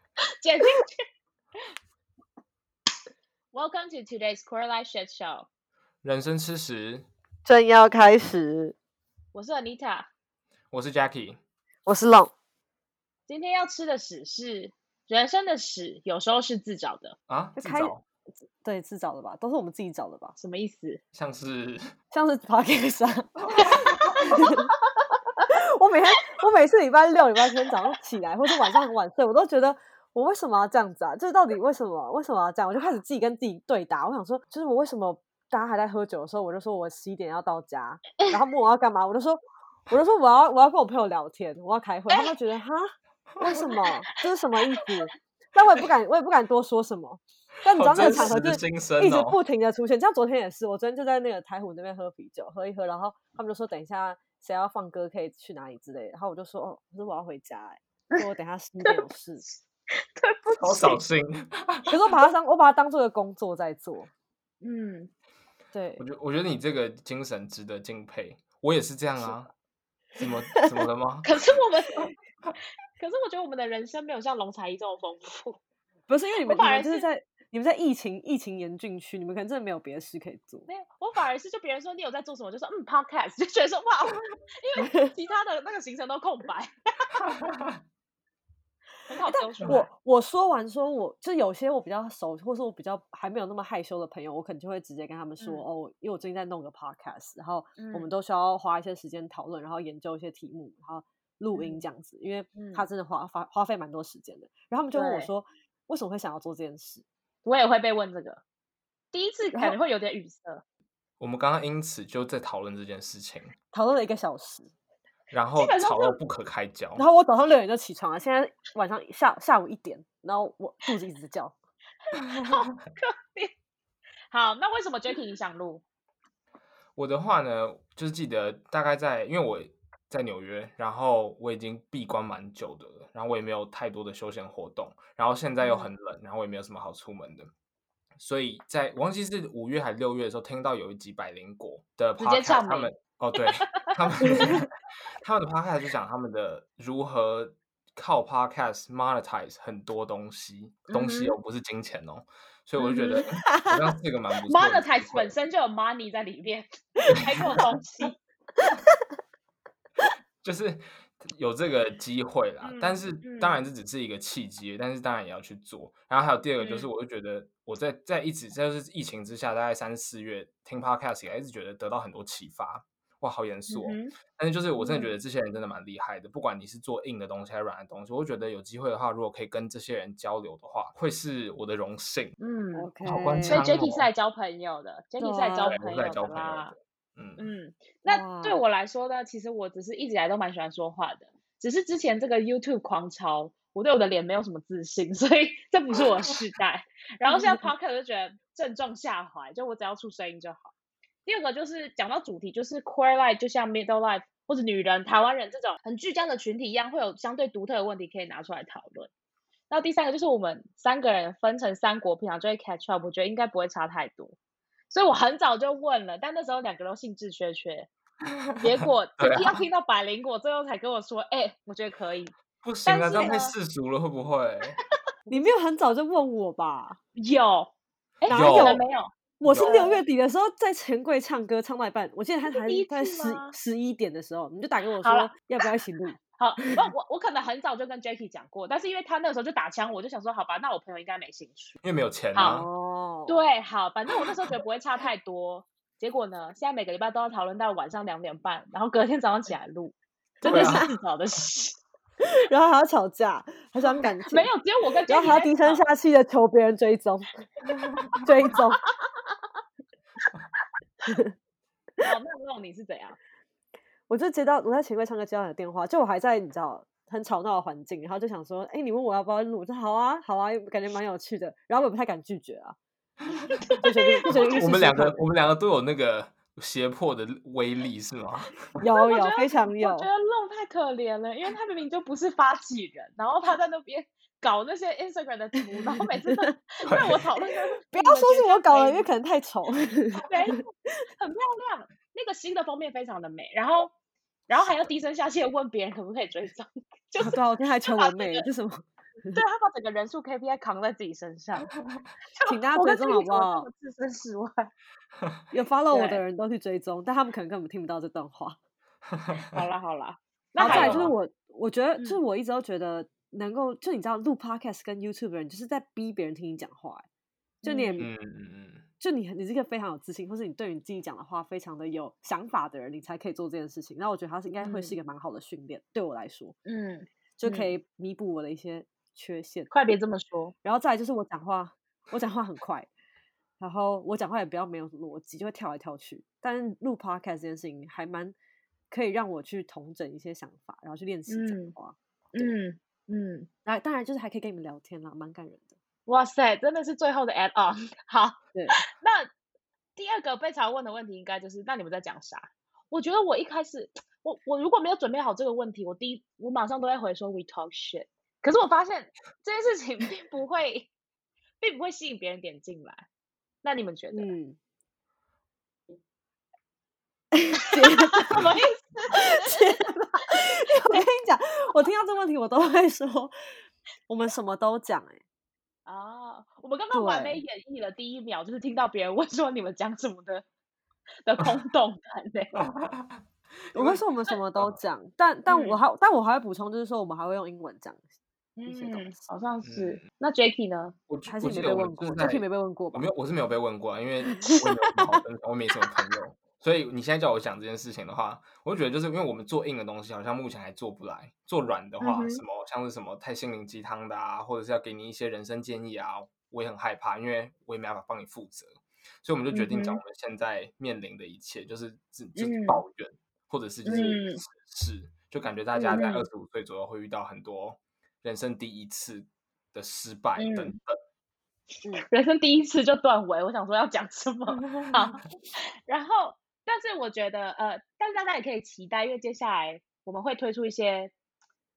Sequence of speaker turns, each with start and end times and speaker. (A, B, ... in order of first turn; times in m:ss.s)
0:00.4-0:01.0 A
0:03.5-0:05.5 A
0:06.0-0:07.1 B
0:07.4-0:08.8 C
0:09.3-0:10.1 A
0:10.7-0:11.4 B
0:11.9-0:12.3 C
0:13.3-0:17.2 A
0:17.3-0:18.0 B
0:17.6-0:17.9 C
0:18.6-0:20.4 C
0:20.4-0:21.0 A
0:21.1-0:21.9 B
0:22.1-0:24.7 C
0:23.5-0:23.9 B
0:23.6-0:25.2 A
0:25.5-0:59.4 C
0:47.7-0:49.4 B
0:48.0-0:48.3 A
1:00.0-1:01.0 A
1:00.6-1:01.9 B
1:01.9-1:04.1 C
1:04.6-1:05.1 A
1:05.7-1:06.0 C
1:06.0-1:09.5 B
1:10.2-1:11.3 B
1:11.2-1:12.1 A
1:13.0-1:15.6 A
1:16.1-1:20.7 C
1:16.4-1:17.1 A
1:20.7-1:27.1 A
1:24.8-1:25.1 C
1:27.3-1:27.8 B
1:29.1-1:29.9 A
1:29.3-1:47.0 C
1:35.4-1:35.7 A
1:37.8-1:38.1 A
1:41.6-1:41.8 A
1:42.6-1:42.9 A
1:44.9-1:45.3 A
1:47.4-1:48.4 A
1:49.1-1:50.6 A
1:51.2-1:53.5 B
1:53.7-1:54.7 C
1:55.3-1:57.0 B
1:55.6-1:56.2 A
1:57.0-2:01.6 C
2:02.1-2:03.5 A
2:04.3-2:05.8 A
2:07.0-2:17.5 B
2:15.6-2:15.9 A
2:18.2-2:24.7 B
2:22.2-2:24.5 A
2:25.2-2:35.3 B
2:30.9-2:31.4 A
2:32.8-2:33.3 A
2:33.5-2:33.8 C
2:34.5-2:38.2 A
2:40.4-3:02.3 B
2:42.6-2:43.6 A
2:46.6-2:46.9 A
2:53.7-2:54.2 A
2:54.8-2:55.1 A
3:02.4-3:02.9 A
3:02.8-3:03.6 C
3:03.0-3:04.1 B
3:03.5-3:06.7 A
3:05.2-3:05.8 C
3:05.7-3:07.4 B
3:07.4-3:20.7 A
3:08.1-3:08.6 C
3:17.3-3:17.7 C
3:21.3-3:29.1 A
3:29.7-3:34.4 A
3:34.9-3:37.9 A
3:38.2-3:39.6 B
3:38.6-3:42.3 A
3:42.6-3:44.8 B
3:42.9-3:43.5 A
3:45.3-3:47.0 C
3:47.2-3:50.0 A
3:48.3-3:48.8 C
3:48.3-3:48.8 B
3:49.4-3:56.9 C
3:49.4-3:49.8 B
3:52.5-3:53.6 A
3:55.0-3:55.4 A
3:56.4-4:01.8 A
4:01.8-4:02.7 B
4:02.4-4:02.6 A
4:02.4-4:03.4 C
4:03.3-4:11.8 A
4:10.4-4:10.9 B
4:10.5-4:10.9 C
4:12.2-4:14.5 C
4:14.3-4:15.9 A
4:15.1-4:17.3 C
4:17.7-4:18.2 B
4:18.2-4:18.8 C
4:21.1-4:21.3 C
4:22.0-4:23.2 A
4:24.1-4:32.8 C
4:33.5-4:34.6 A
4:33.8-4:35.2 C
4:34.4-4:38.5 B
4:38.8-4:40.1 C
4:38.9-4:49.1 A
4:46.8-4:47.2 B
4:47.9-4:50.6 C
4:50.1-4:53.9 A
4:54.5-4:58.4 A
4:57.2-4:59.4 C
4:59.3-5:01.7 A
5:01.7-5:02.0 B
5:02.4-5:04.7 A
5:02.5-5:03.7 C
5:05.5-5:08.6 C
5:05.9-5:06.2 A
5:09.1-5:09.6 B
5:09.5-5:11.1 A
5:10.6-5:17.1 C
5:10.6-5:11.2 B
5:17.6-5:18.1 A
5:17.6-5:18.1 C
5:18.0-5:18.9 B
5:19.0-5:26.6 C
5:24.6-5:25.0 A
5:26.7-5:27.8 A
5:27.4-5:29.7 C
5:29.7-5:30.6 A
5:30.6-5:32.9 C
5:33.6-5:38.4 C
5:38.9-5:42.5 C
5:41.3-5:41.8 A
5:42.4-5:43.5 A
5:43.6-5:45.8 C
5:46.1-5:49.3 A
5:50.0-6:00.9 A
6:01.6-6:03.0 A
6:03.6-6:04.3 A
6:04.1-6:04.6 C
6:07.3-6:08.5 C
6:07.7-6:11.1 A
6:09.1-6:13.3 C
6:14.1-6:15.2 C
6:15.9-6:20.4 A
6:16.9-6:17.4 C
6:21.2-6:22.6 A
6:22.6-6:23.2 B
6:23.7-6:24.0 B
6:23.7-6:28.0 C
6:25.5-6:25.8 A
6:28.6-6:31.0 A
6:28.7-6:29.2 C
6:29.6-6:30.0 B
6:31.1-7:01.0 B
6:31.3-6:33.1 C
6:34.4-6:35.2 C
6:42.0-6:42.4 A
6:49.5-6:50.0 A
6:52.4-6:52.8 A
6:53.8-6:54.4 A
6:55.8-6:56.3 A
7:00.4-7:00.8 A
7:01.9-7:05.2 A
7:04.6-7:04.9 B
7:05.9-7:11.1 A